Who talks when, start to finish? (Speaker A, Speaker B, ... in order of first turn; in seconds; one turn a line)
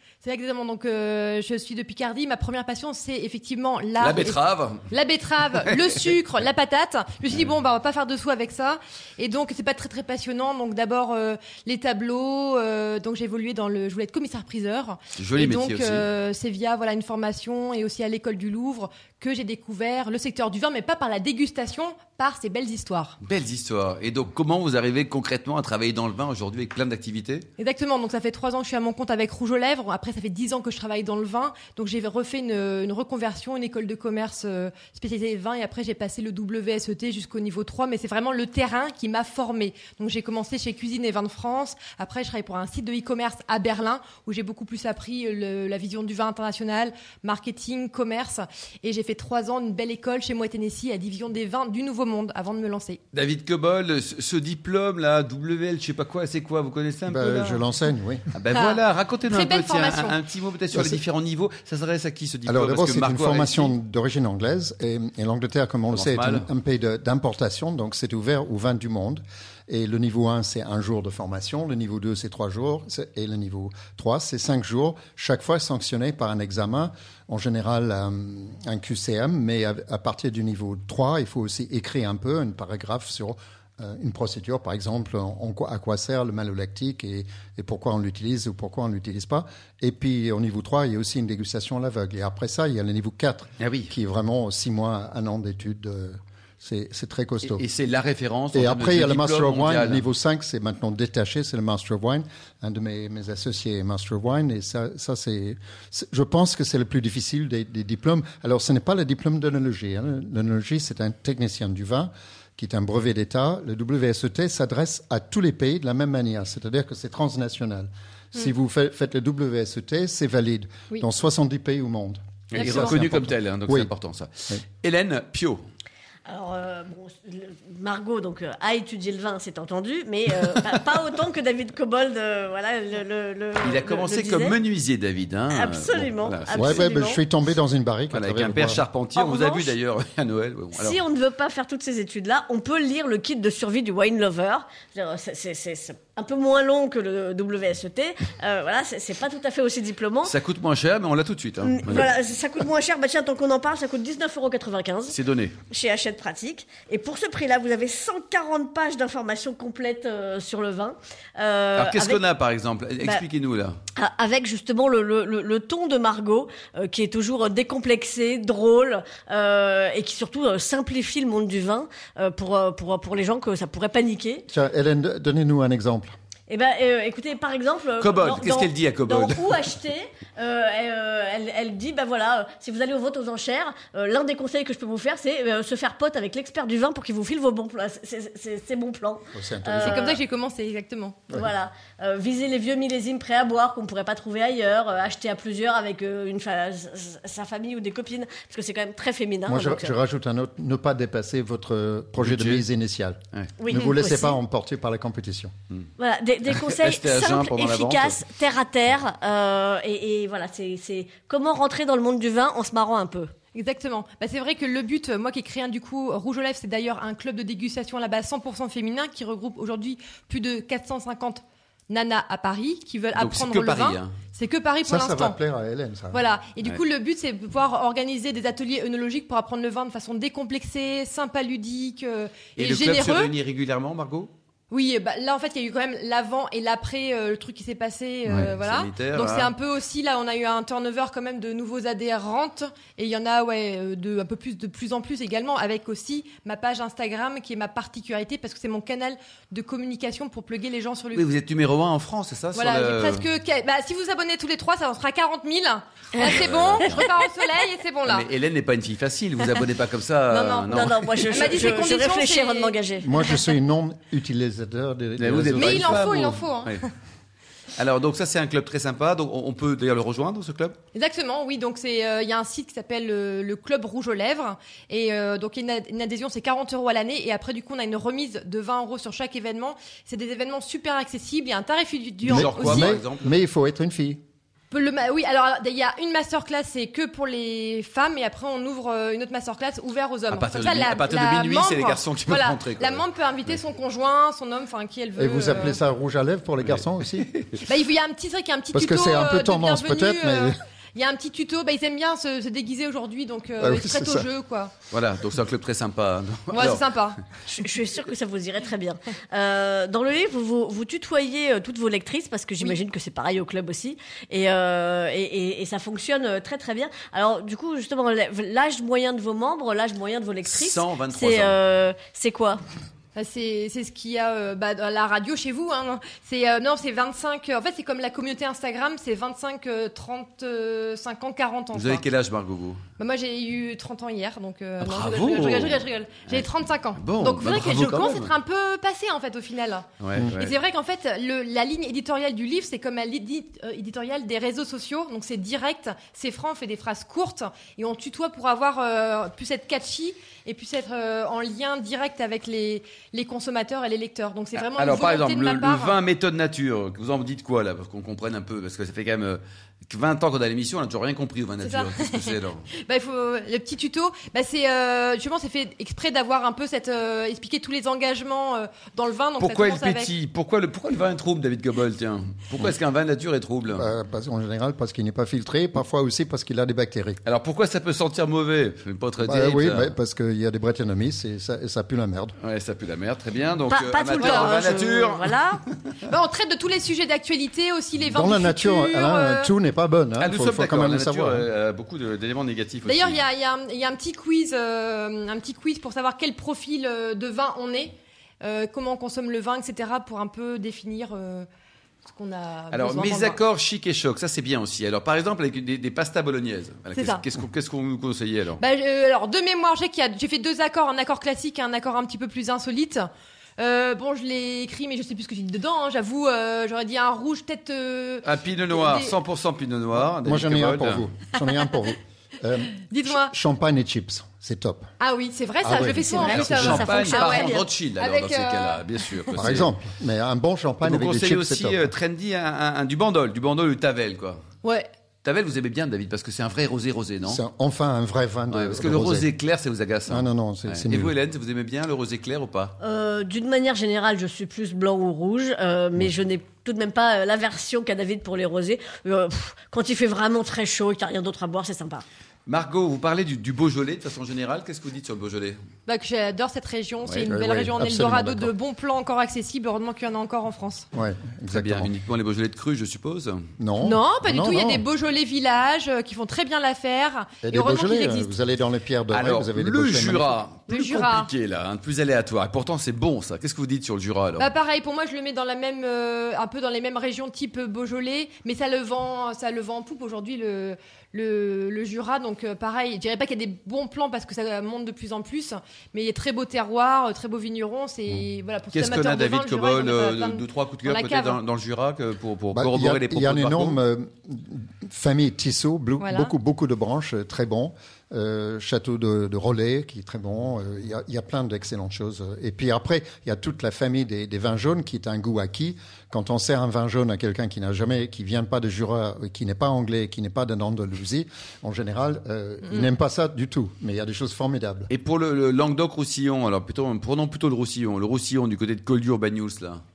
Speaker A: 0.2-4.4
Speaker B: 4.0-4.9
Speaker A: 4.9-23.2
Speaker B: 5.6-6.0
Speaker B: 15.2-16.1
Speaker B: 23.2-27.5
Speaker A: 27.6-53.0
Speaker B: 53.1-57.6
Speaker C: 57.0-58.2
Speaker B: 58.3-63.7
Speaker A: 58.5-60.2
Speaker C: 62.5-97.6
Speaker B: 65.9-66.5
Speaker B: 93.6-93.9
Speaker B: 97.5-100.0
Speaker C: 98.5-123.9
Speaker B: 122.5-125.6
Speaker A: 122.5-123.0
Speaker D: 126.3-134.6
Speaker B: 133.6-136.8
Speaker D: 135.5-137.2
Speaker C: 136.5-138.8
Speaker B: 138.1-141.0
Speaker D: 139.2-139.8
Speaker D: 140.8-150.4
Speaker B: 150.2-152.1
Speaker D: 151.6-155.2
Speaker B: 155.1-155.6
Speaker D: 155.7-162.2
Speaker B: 161.8-163.8
Speaker D: 163.9-174.4
Speaker C: 174.5-176.1
Speaker D: 176.5-190.2
Speaker B: 178.0-179.6
Speaker C: 189.3-190.2
Speaker A: 189.8-191.3
Speaker D: 191.3-199.9
Speaker C: 199.5-205.5
Speaker B: 202.2-202.6
Speaker D: 203.6-204.4
Speaker D: 206.0-213.3
Speaker B: 206.5-208.2
Speaker A: 213.5-225.4
Speaker B: 223.2-224.1
Speaker C: 224.8-226.2
Speaker A: 226.1-233.3
Speaker B: 232.6-234.3
Speaker A: 234.7-251.3
Speaker B: 238.3-239.5
Speaker B: 251.1-253.2
Speaker A: 252.5-258.3
Speaker B: 256.2-257.1
Speaker B: 258.1-261.8
Speaker A: 260.3-262.8
Speaker D: 260.7-263.3
Speaker C: 263.0-266.3
Speaker B: 265.2-266.9
Speaker A: 265.6-266.9
Speaker B: 267.8-270.8
Speaker A: 270.9-282.9
Speaker B: 282.2-283.3
Speaker C: 282.2-284.2
Speaker A: 284.7-295.8
Speaker B: 290.3-293.1
Speaker C: 295.2-297.3
Speaker B: 296.7-297.6
Speaker A: 297.6-304.7
Speaker C: 298.7-300.6
Speaker C: 303.6-304.2
Speaker B: 304.9-306.9
Speaker A: 306.5-307.2
Speaker D: 307.5-322.6
Speaker B: 320.4-321.6
Speaker A: 323.1-332.0
Speaker B: 331.7-332.8
Speaker A: 333.0-356.0
Speaker B: 334.8-338.3
Speaker B: 340.0-340.6
Speaker B: 354.6-362.6
Speaker A: 361.6-370.1
Speaker B: 369.4-373.9
Speaker C: 373.7-377.2
Speaker B: 377.2-379.9
Speaker C: 379.2-382.3
Speaker B: 382.4-385.4
Speaker D: 383.7-385.6
Speaker A: 384.2-384.6
Speaker A: 386.0-389.5
Speaker C: 388.1-391.5
Speaker B: 390.2-393.2
Speaker A: 392.8-401.5
Speaker A: 402.1-403.4
Speaker B: 402.7-408.6
Speaker A: 406.9-407.2
Speaker A: 408.6-419.2
Speaker B: 418.2-421.1
Speaker C: 419.9-424.9
Speaker A: 422.9-423.3
Speaker A: 425.0-429.4
Speaker C: 425.6-426.9
Speaker D: 426.0-427.6
Speaker B: 426.2-429.7
Speaker C: 429.3-431.9
Speaker B: 430.8-434.4
Speaker A: 434.6-434.9
Speaker B: 435.2-437.4
Speaker C: 437.2-439.3
Speaker B: 438.5-442.7
Speaker C: 440.1-441.1
Speaker D: 442.8-452.1
Speaker B: 452.4-455.6
Speaker A: 455.9-460.9
Speaker C: 457.3-458.5
Speaker C: 460.9-461.9
Speaker B: 461.5-463.4
Speaker C: 463.6-464.8
Speaker A: 463.8-468.3
Speaker C: 467.4-470.4
Speaker B: 469.1-474.5
Speaker A: 470.7-471.3
Speaker A: 474.4-491.4
Speaker B: 488.7-493.8
Speaker C: 492.5-514.9
Speaker A: 496.0-496.3
Speaker B: 514.9-519.8